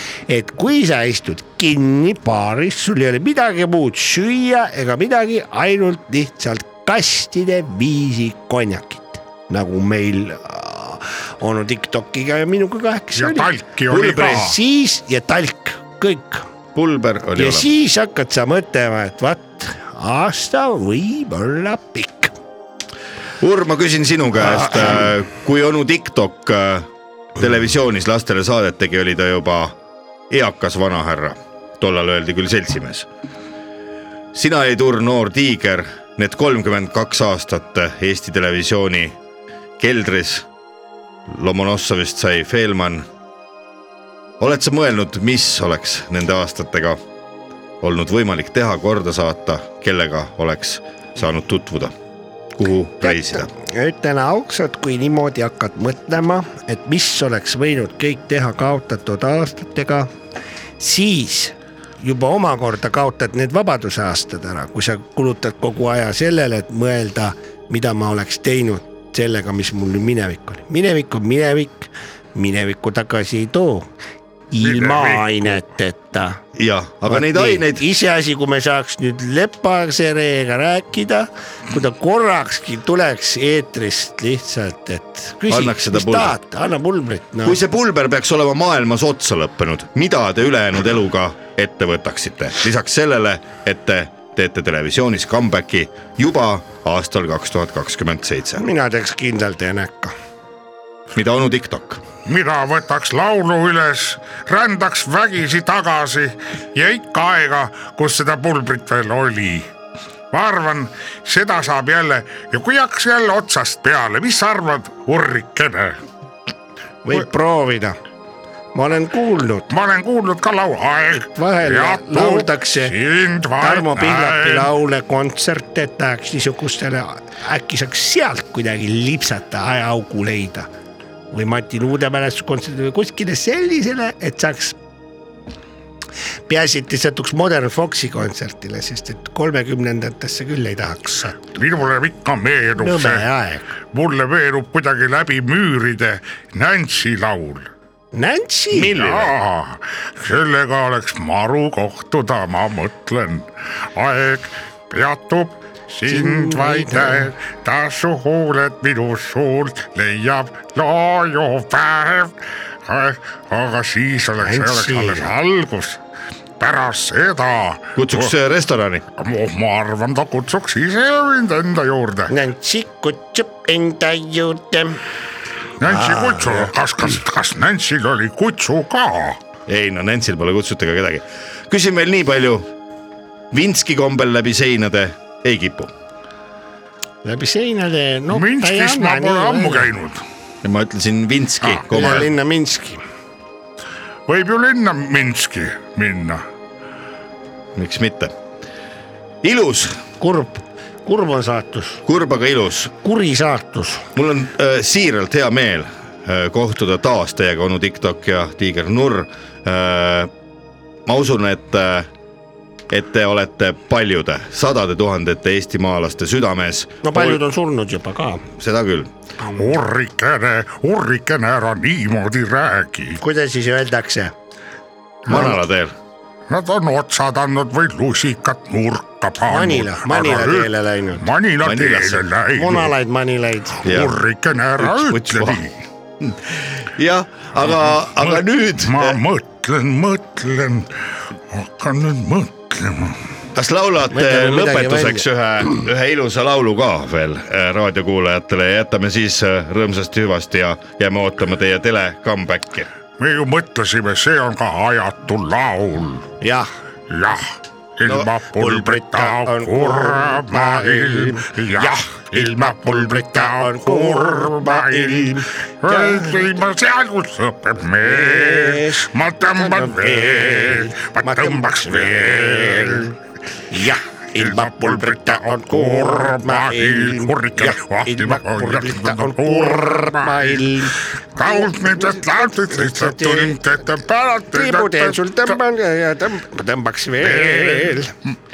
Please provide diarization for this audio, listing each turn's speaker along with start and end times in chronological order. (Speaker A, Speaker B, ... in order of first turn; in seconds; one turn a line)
Speaker A: 0.3-16.5
Speaker B: 13.2-14.6
Speaker C: 13.9-14.5
Speaker C: 16.7-17.7
Speaker A: 17.4-22.3
Speaker C: 23.4-29.8
Speaker A: 24.4-25.1
Speaker C: 30.3-33.1
Speaker C: 34.3-39.2
Speaker C: 39.8-40.5
Speaker C: 41.3-43.1
Speaker C: 44.4-47.0
Speaker C: 47.8-51.9
Speaker C: 52.5-53.5
Speaker A: 53.0-60.1
Speaker A: 60.8-73.9
Speaker A: 74.5-76.4
Speaker B: 74.6-75.6
Speaker C: 76.5-77.8
Speaker A: 77.1-87.6
Speaker C: 85.5-86.4
Speaker C: 87.4-98.6
Speaker A: 98.6-100.2
Speaker C: 101.1-102.0
Speaker B: 102.3-109.7
Speaker B: 110.3-116.0
Speaker A: 117.0-118.0
Speaker A: 118.8-119.7
Speaker B: 119.7-124.7
Speaker A: 121.3-122.9
Speaker A: 123.6-130.7
Speaker A: 131.3-134.8
Speaker A: 136.5-141.5
Speaker B: 141.6-143.3
Speaker A: 142.8-143.7
Speaker B: 143.9-147.7
Speaker A: 148.1-149.0
Speaker B: 148.7-166.0
Speaker C: 148.9-149.3
Speaker A: 156.1-157.3
Speaker A: 164.4-165.3
Speaker B: 166.6-168.3
Speaker C: 168.0-169.0
Speaker B: 169.2-172.3
Speaker A: 172.3-175.0
Speaker B: 175.8-179.4
Speaker A: 175.8-176.7
Speaker C: 179.7-182.7
Speaker C: 183.5-185.9
Speaker A: 187.2-189.9
Speaker B: 188.3-190.2
Speaker C: 190.6-192.3
Speaker B: 191.6-192.2
Speaker A: 191.9-193.0
Speaker B: 194.3-196.4
Speaker C: 197.8-198.3
Speaker C: 199.4-200.0
Speaker A: 200.2-202.0
Speaker C: 202.1-202.9
Speaker A: 203.0-204.1
Speaker C: 204.2-210.3
Speaker C: 211.1-212.1
Speaker C: 212.9-217.4
Speaker A: 217.0-218.4
Speaker C: 218.6-219.1
Speaker A: 219.4-219.7
Speaker B: 219.6-223.2
Speaker A: 223.2-224.3
Speaker C: 225.3-225.9
Speaker A: 225.3-225.6
Speaker B: 226.5-232.9
Speaker A: 229.4-231.2
Speaker C: 231.6-232.2
Speaker A: 232.5-233.9
Speaker C: 233.8-234.2
Speaker B: 233.8-235.7
Speaker C: 234.8-235.6
Speaker C: 236.2-239.2
Speaker B: 237.7-240.9
Speaker B: 241.5-243.2
Speaker C: 243.6-252.9
Speaker A: 244.1-245.2
Speaker B: 253.2-256.3
Speaker A: 256.4-256.7
Speaker B: 257.1-273.1
Speaker A: 258.1-266.5
Speaker A: 268.0-273.1
Speaker A: 273.7-283.7
Speaker B: 274.4-280.6
Speaker B: 281.4-285.5
Speaker A: 284.5-288.1
Speaker B: 287.2-288.0